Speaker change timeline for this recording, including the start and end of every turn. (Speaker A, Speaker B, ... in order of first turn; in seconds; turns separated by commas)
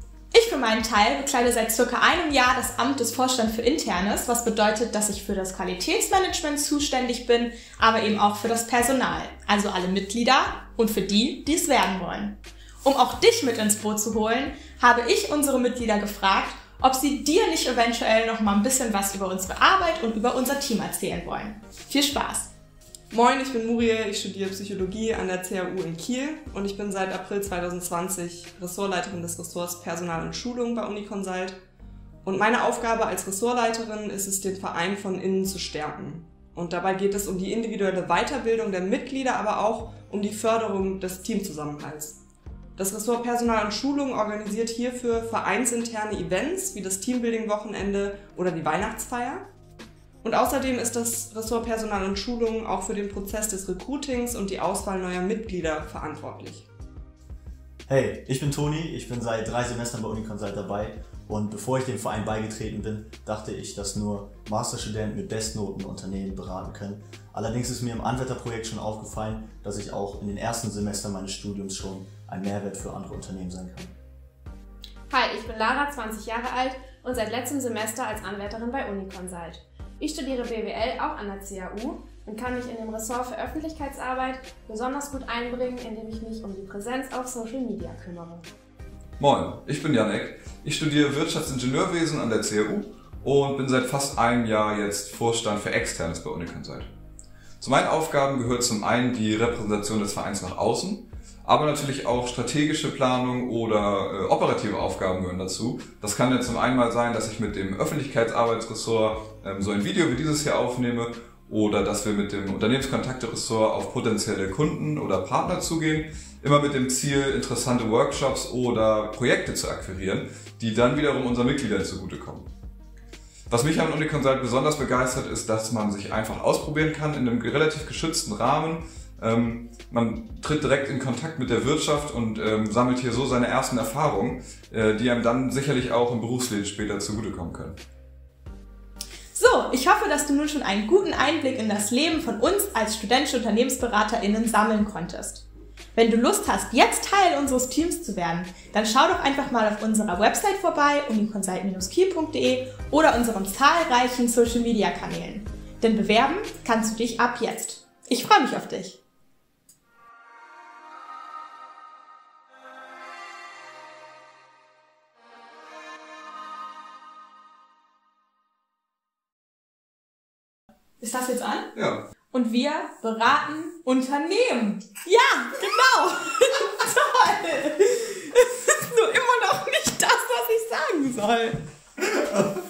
Speaker A: 0.3-22.5, Speaker B: 23.1-31.6, Speaker B: 32.2-42.2, Speaker B: 42.8-49.5, Speaker B: 50.2-56.7, Speaker C: 57.9-73.9, Speaker D: 75.1-88.4, Speaker E: 89.2-96.9, Speaker E: 97.6-122.5, Speaker E: 123.5-137.8, Speaker A: 139.3-159.0, Speaker A: 171.0-171.7, Speaker E: 171.8-172.0, Speaker A: 172.3-181.6